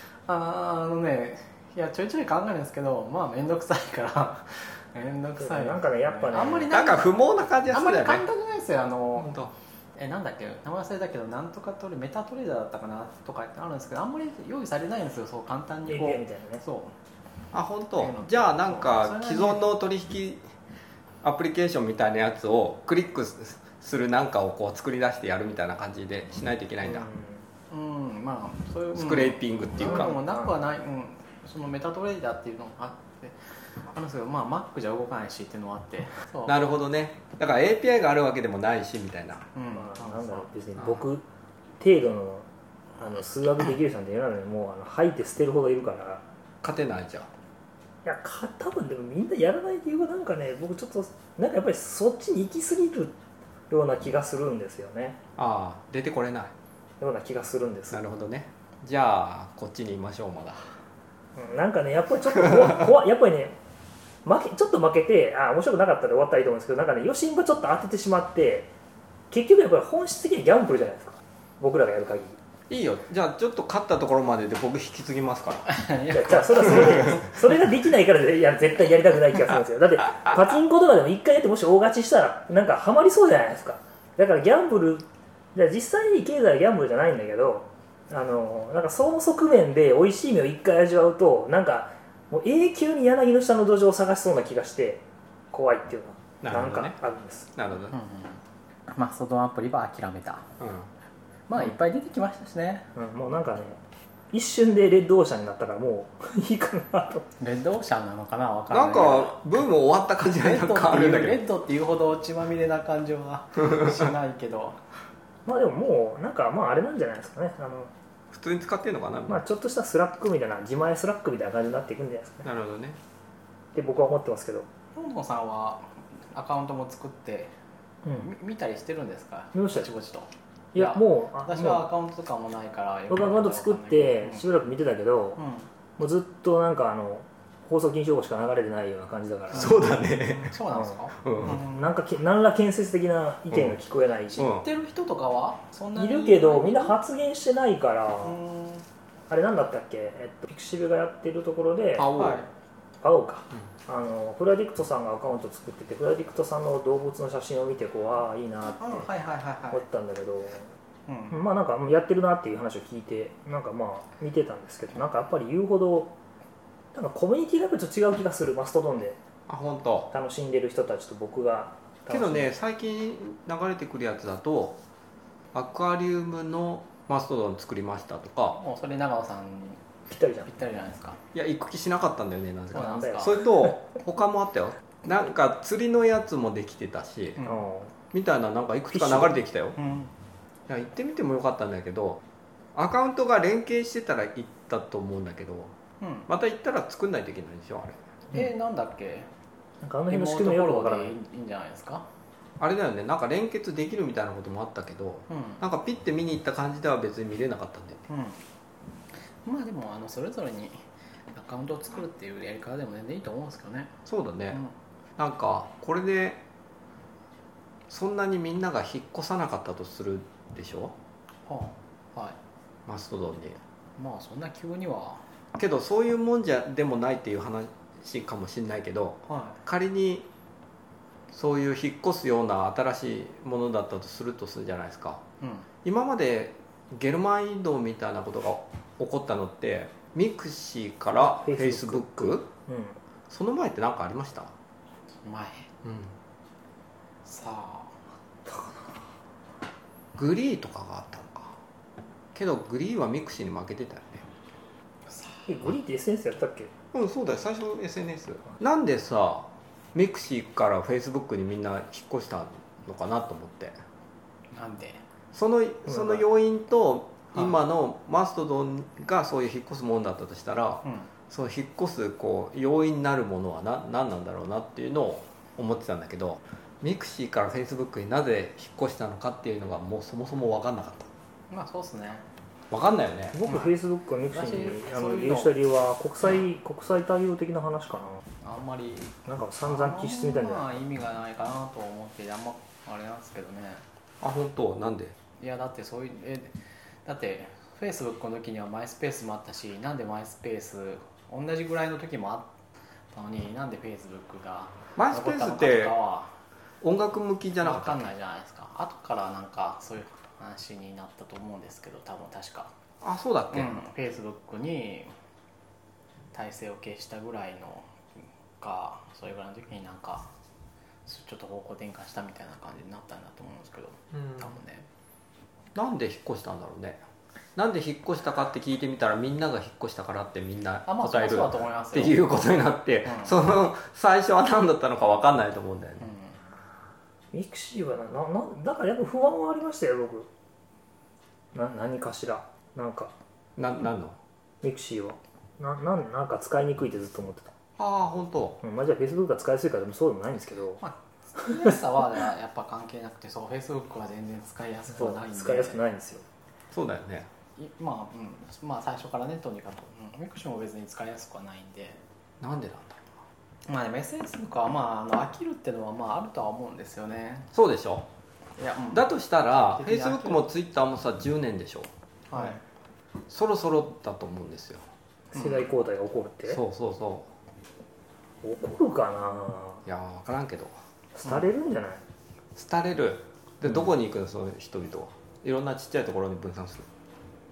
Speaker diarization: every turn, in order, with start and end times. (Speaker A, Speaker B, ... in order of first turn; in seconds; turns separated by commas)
Speaker A: 0.3-9.3, Speaker B: 5.4-6.7, Speaker C: 6.7-8.3, Speaker C: 9.2-9.5, Speaker A: 9.9-16.9, Speaker B: 15.9-16.6, Speaker C: 17.5-20.4, Speaker A: 18.0-19.6, Speaker C: 21.2-27.1, Speaker B: 26.8-27.4, Speaker A: 27.7-36.5, Speaker C: 28.9-30.1, Speaker B: 29.8-30.5, Speaker C: 36.5-39.5, Speaker A: 39.5-40.5, Speaker B: 39.7-41.2, Speaker B: 41.8-42.5, Speaker B: 43.0-46.2, Speaker C: 46.6-47.3, Speaker B: 48.0-53.1, Speaker B: 53.7-55.2, Speaker C: 55.4-56.5, Speaker B: 57.0-58.0, Speaker C: 57.9-60.8, Speaker B: 61.4-63.6, Speaker B: 64.2-68.7, Speaker B: 69.3-72.4, Speaker C: 72.7-75.8, Speaker A: 75.7-77.2, Speaker B: 76.1-97.5, Speaker C: 96.4-97.0, Speaker C: 97.6-98.0, Speaker A: 97.9-100.5, Speaker C: 100.6-100.9, Speaker A: 101.5-102.9, Speaker B: 103.0-103.8, Speaker B: 104.3-107.2, Speaker A: 107.4-109.6, Speaker C: 108.7-111.4, Speaker A: 110.2-114.8, Speaker B: 115.5-117.9, Speaker C: 118.3-119.4, Speaker B: 119.3-122.5, Speaker C: 122.4-123.0, Speaker B: 123.7-124.7, Speaker A: 124.9-127.5, Speaker A: 128.1-134.5, Speaker B: 129.5-129.9, Speaker B: 130.7-131.9, Speaker B: 133.1-135.4, Speaker A: 135.4-135.7, Speaker B: 136.0-139.8, Speaker C: 139.5-140.6, Speaker A: 139.6-141.8, Speaker C: 141.2-141.6, Speaker B: 141.4-144.5, Speaker A: 144.4-147.0, Speaker C: 144.4-144.6, Speaker B: 146.0-148.4, Speaker A: 148.2-148.8, Speaker B: 149.3-152.3, Speaker C: 152.0-152.4, Speaker A: 152.2-152.4, Speaker B: 153.0-159.1, Speaker A: 158.8-159.8, Speaker B: 159.7-160.7, Speaker A: 161.1-161.4, Speaker B: 161.3-166.1, Speaker B: 166.9-169.2, Speaker C: 169.5-170.1, Speaker B: 170.1-172.5, Speaker C: 172.1-174.8, Speaker C: 175.5-178.6, Speaker A: 178.5-179.8, Speaker B: 180.1-180.5, Speaker A: 180.4-181.2, Speaker C: 181.3-187.4, Speaker A: 182.7-183.4, Speaker B: 182.8-183.5, Speaker A: 187.4-187.7, Speaker B: 187.4-187.9, Speaker C: 188.1-189.8, Speaker B: 188.9-189.4, Speaker A: 189.8-190.1, Speaker C: 190.7-192.2, Speaker C: 192.8-195.7, Speaker A: 196.0-196.3, Speaker C: 196.3-198.0, Speaker A: 198.3-199.3, Speaker B: 199.8-201.2, Speaker A: 200.1-202.1, Speaker C: 202.6-208.0, Speaker A: 205.3-205.6, Speaker A: 208.1-208.4, Speaker A: 209.4-213.9, Speaker C: 214.1-214.6, Speaker C: 215.2-216.4, Speaker C: 217.9-220.9, Speaker A: 221.5-222.4, Speaker C: 222.9-223.6, Speaker A: 224.0-225.2, Speaker C: 225.6-230.3, Speaker A: 229.3-229.6, Speaker C: 231.3-235.2, Speaker A: 235.4-235.7, Speaker C: 235.8-242.5, Speaker B: 241.1-243.0, Speaker C: 243.3-244.5, Speaker A: 245.2-245.7, Speaker C: 245.8-246.1, Speaker A: 247.2-248.0, Speaker B: 248.5-248.8, Speaker C: 250.2-251.5, Speaker C: 252.3-254.2, Speaker A: 255.1-255.5, Speaker B: 255.5-256.7, Speaker C: 256.9-263.8, Speaker A: 264.5-265.0, Speaker C: 265.3-281.1, Speaker B: 265.9-266.2, Speaker A: 270.8-271.1, Speaker A: 281.5-282.2, Speaker C: 282.7-283.4, Speaker B: 283.3-288.2, Speaker A: 284.3-285.6, Speaker A: 288.4-293.8, Speaker B: 289.2-290.6, Speaker C: 294.2-295.1, Speaker A: 295.4-302.5, Speaker A: 303.1-306.3, Speaker C: 305.0-305.9, Speaker C: 306.8-308.1, Speaker A: 307.6-312.7, Speaker C: 313.0-313.8, Speaker A: 313.5-315.1, Speaker A: 316.3-320.3, Speaker A: 321.1-324.9, Speaker C: 324.1-324.5, Speaker C: 325.8-327.0, Speaker C: 327.6-336.1, Speaker A: 330.9-333.4, Speaker A: 336.0-336.3, Speaker B: 337.3-340.3, Speaker B: 341.5-343.1, Speaker C: 343.6-344.2, Speaker B: 344.6-347.5, Speaker C: 347.8-348.6, Speaker B: 348.6-350.8, Speaker A: 350.8-355.8, Speaker B: 354.9-356.2, Speaker C: 356.7-357.3, Speaker A: 357.6-362.0, Speaker C: 362.4-363.1, Speaker A: 363.7-367.5, Speaker C: 367.5-368.1, Speaker A: 368.6-370.5, Speaker C: 368.9-371.9, Speaker A: 372.3-372.6, Speaker C: 373.3-374.8, Speaker B: 375.3-376.6, Speaker C: 376.5-377.3, Speaker B: 378.4-379.8, Speaker C: 379.9-380.8, Speaker B: 381.1-382.0, Speaker C: 382.6-386.9